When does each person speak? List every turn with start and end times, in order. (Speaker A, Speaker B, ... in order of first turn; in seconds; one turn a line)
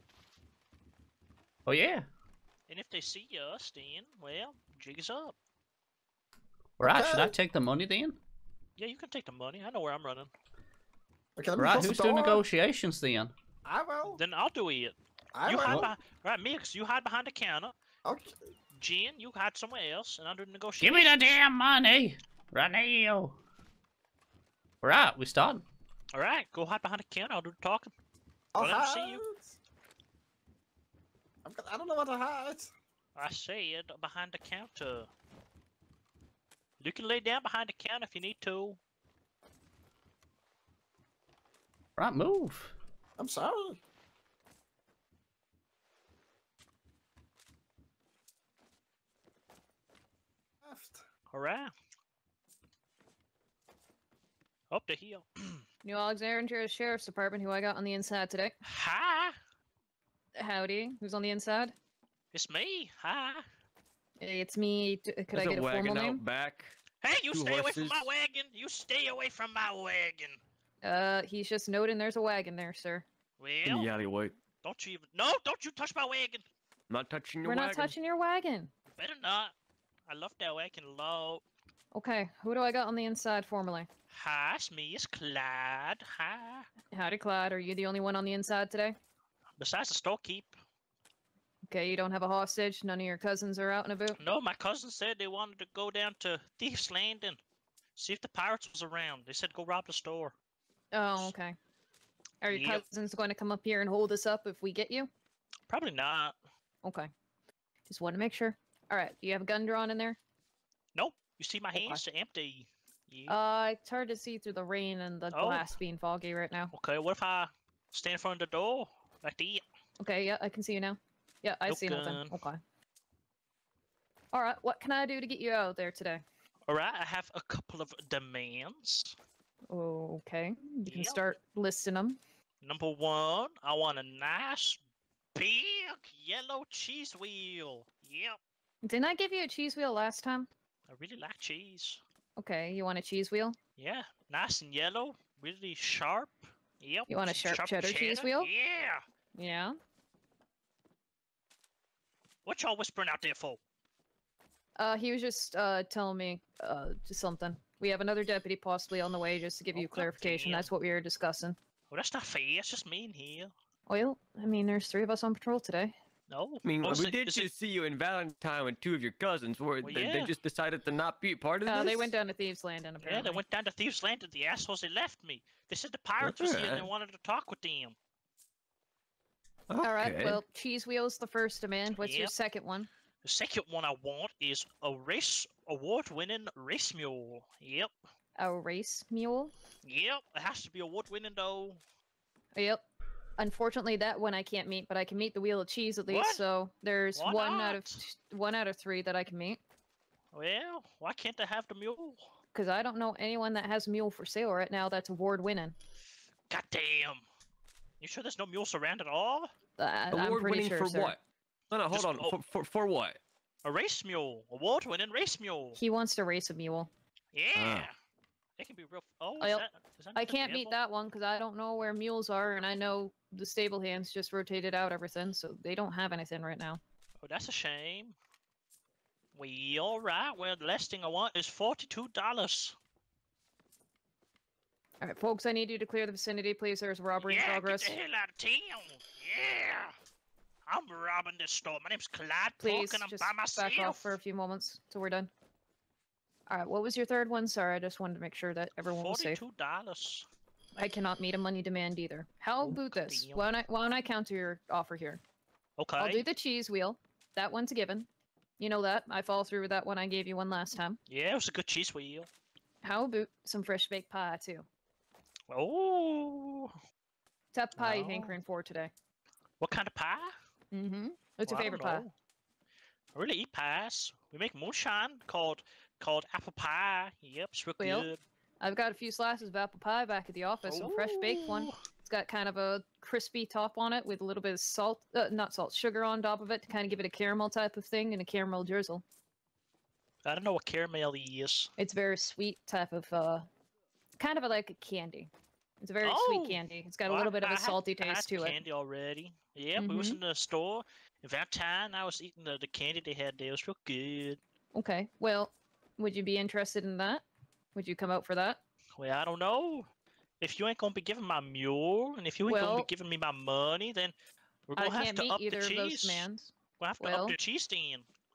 Speaker A: 1.7-2.1
Speaker B: 2.7-5.3
Speaker A: 6.8-8.2
Speaker C: 6.8-7.3
Speaker B: 8.8-10.3
Speaker C: 11.4-12.4
Speaker A: 11.6-13.3
Speaker C: 13.7-14.2
Speaker B: 14.1-17.7
Speaker C: 15.3-15.9
Speaker C: 18.1-18.3
Speaker B: 18.8-21.4
Speaker A: 20.8-23.4
Speaker A: 24.8-25.6
Speaker B: 26.1-27.9
Speaker C: 28.5-29.6
Speaker B: 28.6-29.2
Speaker C: 31.4-32.7
Speaker B: 33.1-35.1
Speaker B: 36.8-38.8
Speaker A: 42.0-42.7
Speaker C: 43.2-43.8
Speaker C: 50.6-51.0
Speaker B: 51.3-51.7
Speaker B: 54.7-55.6
Speaker D: 55.8-58.5
Speaker B: 58.6-59.4
Speaker D: 60.4-61.7
Speaker B: 62.3-63.4
Speaker D: 64.2-66.2
Speaker E: 65.3-66.8
Speaker B: 67.0-70.4
Speaker E: 67.3-68.1
Speaker D: 70.8-73.0
Speaker B: 73.4-73.9
Speaker E: 73.7-74.3
Speaker B: 74.6-76.4
Speaker E: 76.9-78.0
Speaker D: 77.4-78.7
Speaker B: 79.0-79.5
Speaker B: 80.1-81.4
Speaker D: 81.9-83.9
Speaker B: 84.1-86.7
Speaker D: 86.9-89.0
Speaker B: 89.6-90.5
Speaker D: 91.7-94.2
Speaker B: 94.2-97.4
Speaker B: 98.0-100.3
Speaker D: 100.9-101.6
Speaker D: 102.4-105.1
Speaker B: 102.5-102.8
Speaker B: 105.7-106.4
Speaker D: 106.8-107.1
Speaker D: 107.9-110.2
Speaker B: 111.0-113.3
Speaker D: 111.7-112.0
Speaker D: 113.3-116.7
Speaker B: 115.3-115.7
Speaker B: 116.7-119.6
Speaker D: 120.0-122.6
Speaker B: 121.7-122.4
Speaker D: 124.3-126.2
Speaker B: 126.7-129.1
Speaker D: 129.7-132.2
Speaker B: 130.9-131.3
Speaker B: 132.6-134.8
Speaker B: 135.3-138.4
Speaker D: 138.8-140.5
Speaker B: 140.9-142.0
Speaker D: 142.4-143.6
Speaker B: 143.8-149.0
Speaker D: 147.1-148.5
Speaker D: 149.3-149.7
Speaker B: 152.4-153.6
Speaker D: 154.8-161.6
Speaker B: 159.7-160.7
Speaker B: 161.9-163.5
Speaker D: 163.9-165.9
Speaker B: 166.3-167.5
Speaker E: 166.6-172.1
Speaker B: 169.8-170.3
Speaker D: 171.7-173.4
Speaker B: 173.0-178.0
Speaker E: 176.2-176.9
Speaker E: 179.7-180.4
Speaker D: 179.8-182.9
Speaker B: 182.0-182.3
Speaker B: 183.2-187.9
Speaker D: 188.4-189.5
Speaker B: 189.8-191.8
Speaker D: 192.5-192.8
Speaker D: 193.4-199.6
Speaker B: 196.1-196.4
Speaker B: 197.2-198.0
Speaker B: 200.3-202.2
Speaker D: 202.5-205.8
Speaker B: 206.5-207.2
Speaker B: 208.0-209.5
Speaker D: 209.8-211.2
Speaker E: 210.1-213.2
Speaker B: 211.9-212.3
Speaker B: 213.6-215.8
Speaker D: 215.8-216.9
Speaker B: 217.3-217.9
Speaker E: 217.5-217.9
Speaker B: 218.6-220.7
Speaker D: 219.4-226.8
Speaker B: 227.2-228.2
Speaker B: 229.3-232.8
Speaker D: 235.0-237.9
Speaker B: 237.2-239.9
Speaker B: 240.7-244.2
Speaker D: 242.6-245.3
Speaker D: 246.5-249.4
Speaker B: 248.8-250.3
Speaker D: 250.8-255.2
Speaker B: 252.6-253.5
Speaker B: 255.8-256.3
Speaker D: 256.0-258.1
Speaker D: 258.6-261.0
Speaker B: 261.1-262.3
Speaker D: 262.8-264.7
Speaker B: 265.5-266.7
Speaker D: 267.5-268.9
Speaker B: 267.8-268.4
Speaker B: 269.6-270.3
Speaker D: 270.7-272.1
Speaker B: 271.5-272.1
Speaker B: 273.1-278.2
Speaker D: 277.8-278.1
Speaker D: 278.6-289.0
Speaker B: 280.6-281.7
Speaker B: 290.2-291.7
Speaker D: 291.8-293.5
Speaker D: 294.2-298.6
Speaker B: 296.0-304.4
Speaker D: 299.8-300.2
Speaker D: 304.7-307.2
Speaker D: 307.8-308.6
Speaker B: 309.0-309.9
Speaker B: 310.4-314.1
Speaker D: 312.5-312.9
Speaker B: 314.7-316.3
Speaker D: 314.8-317.4
Speaker B: 316.8-318.1